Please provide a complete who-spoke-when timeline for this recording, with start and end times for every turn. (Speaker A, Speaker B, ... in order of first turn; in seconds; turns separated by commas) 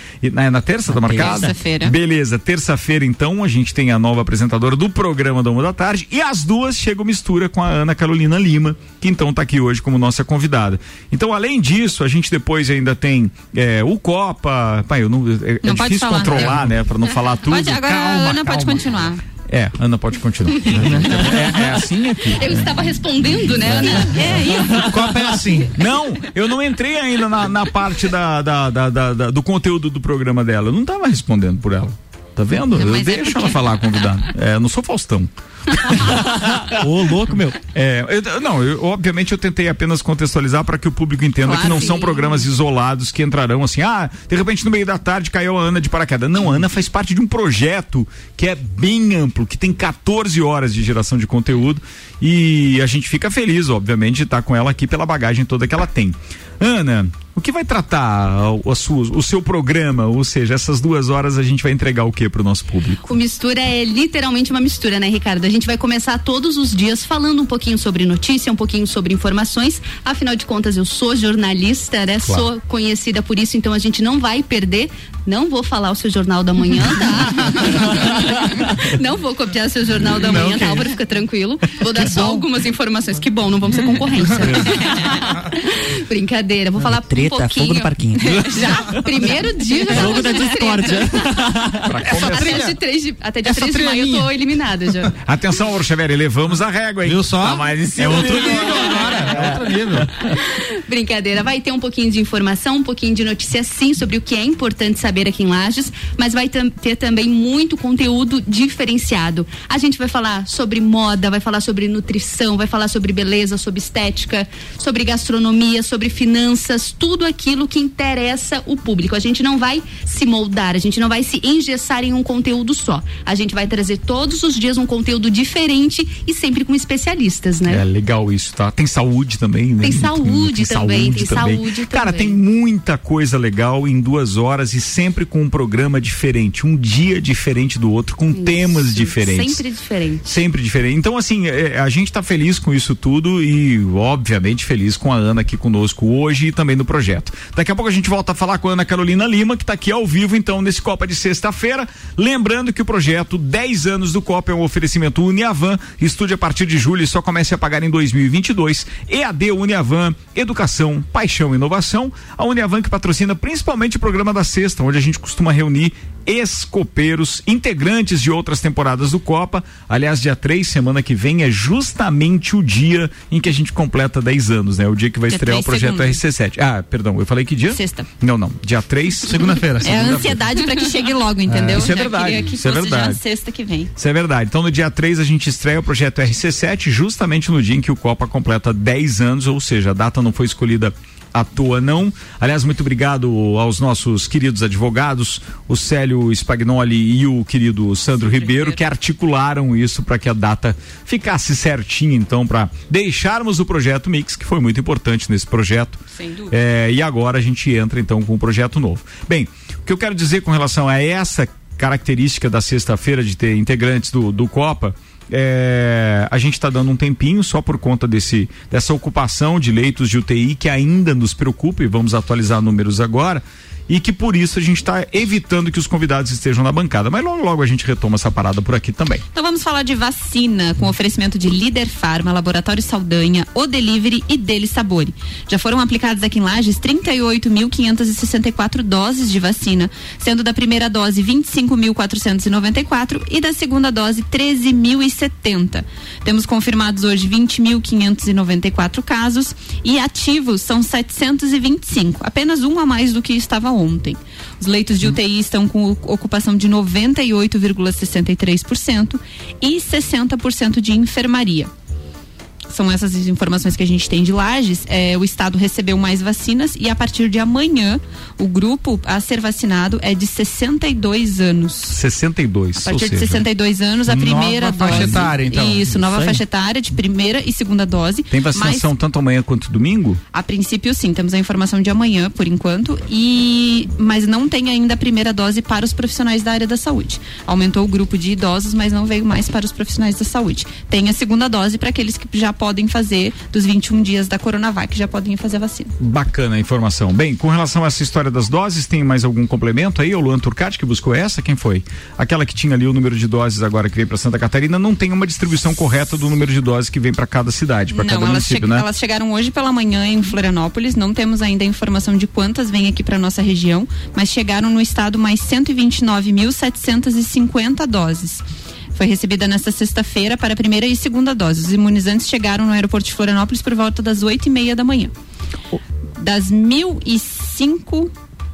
Speaker A: 0.2-17.8, Speaker B: 0.9-1.4, Speaker C: 1.1-1.9, Speaker C: 15.6-16.6, Speaker C: 17.5-19.2, Speaker D: 17.8-18.9, Speaker A: 19.5-22.6, Speaker E: 22.2-24.6, Speaker A: 23.6-24.6, Speaker C: 24.1-25.1, Speaker D: 24.7-25.7, Speaker A: 25.7-36.6, Speaker C: 32.7-33.9, Speaker B: 36.1-37.6, Speaker A: 37.7-63.0, Speaker C: 41.4-42.4, Speaker E: 63.0-91.3, Speaker D: 80.2-80.9, Speaker D: 81.9-82.4, Speaker B: 86.8-89.0, Speaker B: 89.8-91.9, Speaker A: 91.8-92.7, Speaker E: 92.2-95.1, Speaker D: 92.2-92.8, Speaker D: 93.4-94.3, Speaker A: 95.2-100.1, Speaker D: 97.0-100.1, Speaker E: 100.3-127.8, Speaker A: 127.7-139.6, Speaker E: 129.8-132.3, Speaker E: 138.3-140.2, Speaker A: 140.2-180.2, Speaker C: 175.3-176.2, Speaker C: 177.7-178.1, Speaker D: 179.3-180.4, Speaker C: 179.8-183.9, Speaker D: 181.5-181.9, Speaker A: 181.7-183.2, Speaker A: 183.9-229.2, Speaker C: 198.2-198.8, Speaker C: 206.1-206.5, Speaker C: 229.3-261.7, Speaker C: 262.7-272.0, Speaker A: 271.9-273.4, Speaker C: 272.8-278.9, Speaker D: 274.1-275.9, Speaker A: 274.9-275.3, Speaker B: 276.0-276.4, Speaker A: 278.3-280.2, Speaker C: 280.3-295.9, Speaker A: 296.0-308.8, Speaker C: 307.9-318.4, Speaker C: 318.9-325.1, Speaker C: 326.2-328.1